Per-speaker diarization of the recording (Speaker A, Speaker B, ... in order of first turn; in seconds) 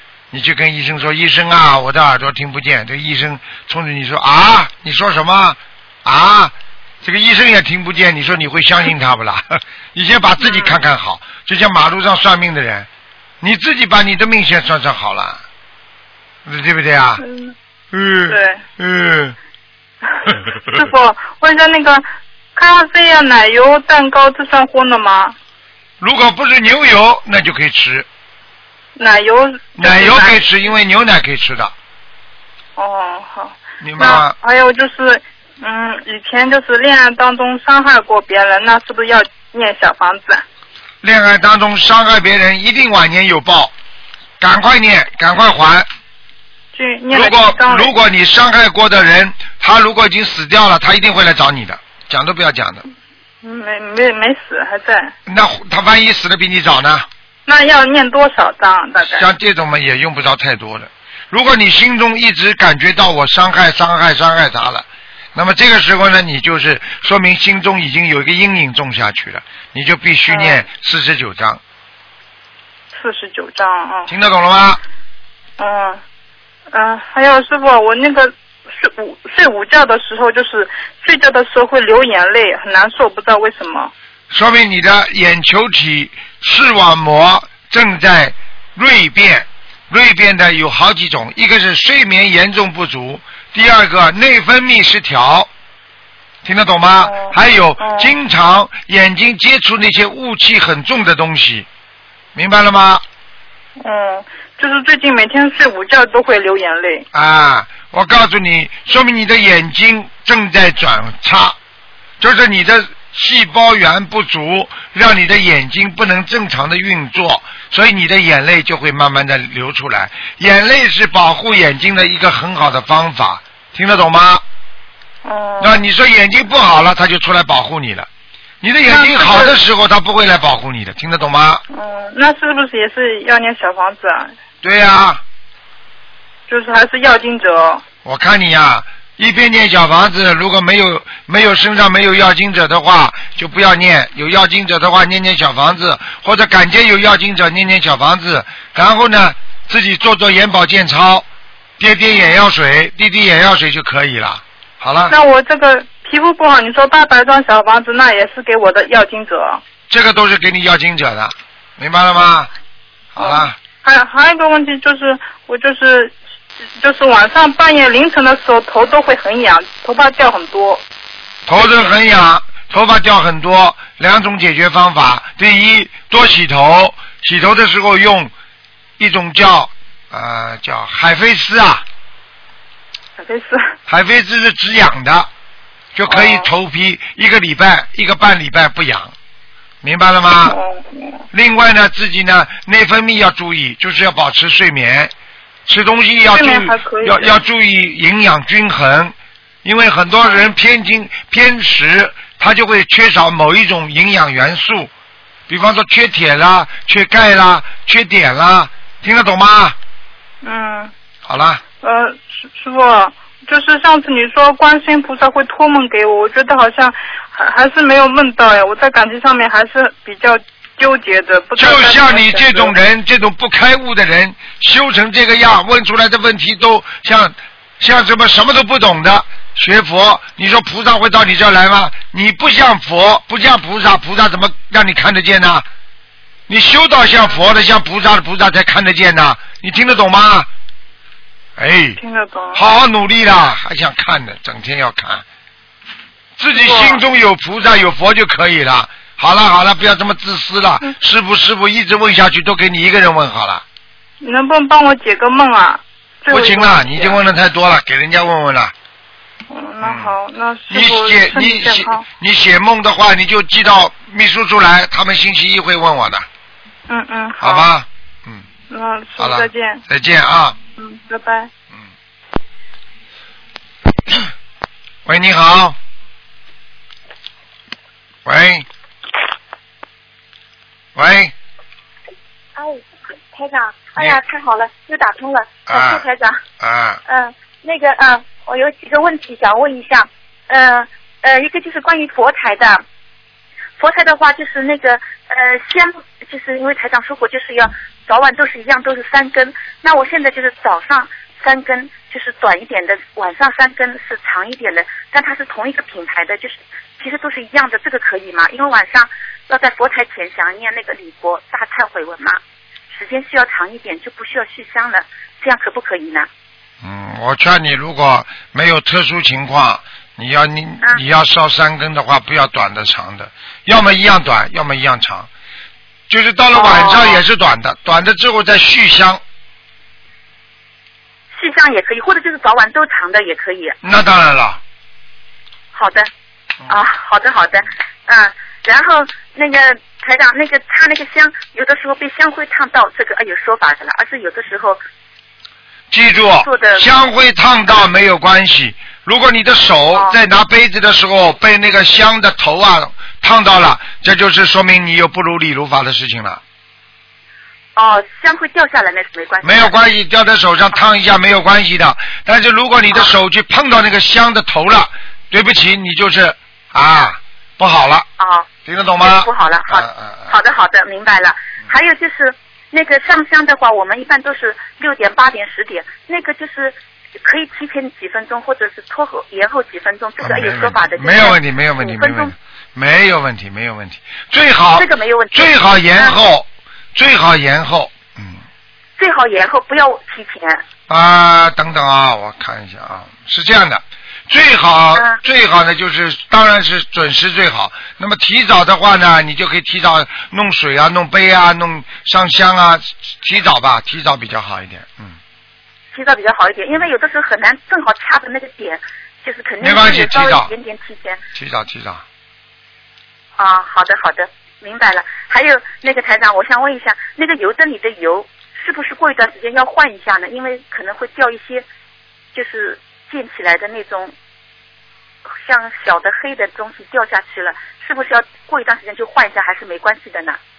Speaker A: 0.3-12.9, 13.4-15.4, 16.4-17.2, 17.9-19.4, 26.0-28.1, 29.8-31.7, 33.8-34.3, 41.0-43.7, 44.4-45.9, 47.1-52.8, 55.3-57.1, 59.1-71.6, 74.1-74.8, 84.3-95.5, 96.4-101.7, 102.3-103.0, 107.1-111.6, 112.2-124.4, 125.6-128.1, 128.6-131.6, 134.6-135.2, 138.0-151.2, 151.8-155.2, 159.9-162.5, 163.1-163.5, 171.5-178.3, 179.0-181.8, 183.9-185.3, 185.9-189.1, 189.8-190.6, 191.3-195.1, 195.7-204.9, 205.5-209.8, 211.2-211.6, 221.6-235.7, 236.5-240.5, 241.6-242.0, 242.5-245.2, 246.4-253.6, 256.3-258.7, 259.8-260.1, 260.7-266.2, 267.4-268.5, 269.2-270.6, 275.1-275.8, 278.2-278.7, 280.9-281.3, 285.7-286.0, 286.6-287.0, 316.8-325.3, 326.1-329.2, 333.8-334.6, 345.9-356.4, 359.4-368.1, 368.6-370.4, 380.2-388.4, 390.9-405.2, 409.6-410.5, 411.3-412.0
Speaker B: 10.4-10.8, 17.2-17.5, 18.3-18.6, 20.1-25.4, 28.9-30.4, 32.8-40.4, 46.7-47.9, 53.4-55.1, 57.5-59.3, 70.3-70.6, 72.9-74.1, 75.6-76.0, 76.7-83.9, 97.0-98.1, 103.8-107.1, 125.2-125.8, 128.9-129.6, 131.7-134.3, 136.5-137.8, 155.1-159.6, 163.2-166.2, 166.8-170.8, 183.2-183.7, 186.1-186.5, 190.4-191.2, 196.3-197.4, 210.4-210.9, 211.8-222.7, 242.0-242.6, 246.5-247.0, 254.2-257.2, 259.5-262.1, 266.9-267.7, 268.7-269.8, 270.8-271.5
Speaker C: 282.6-286.4, 287.1-292.8, 293.8-316.3, 326.5-327.2, 331.3-333.8, 335.7-336.1, 336.7-344.8, 346.4-346.9, 357.8-359.7, 368.2-368.5, 369.0-382.3, 384.8-386.2, 389.0-390.6, 394.9-395.2, 405.9-411.2, 413.4-421.6, 422.3-424.1, 425.3-430.4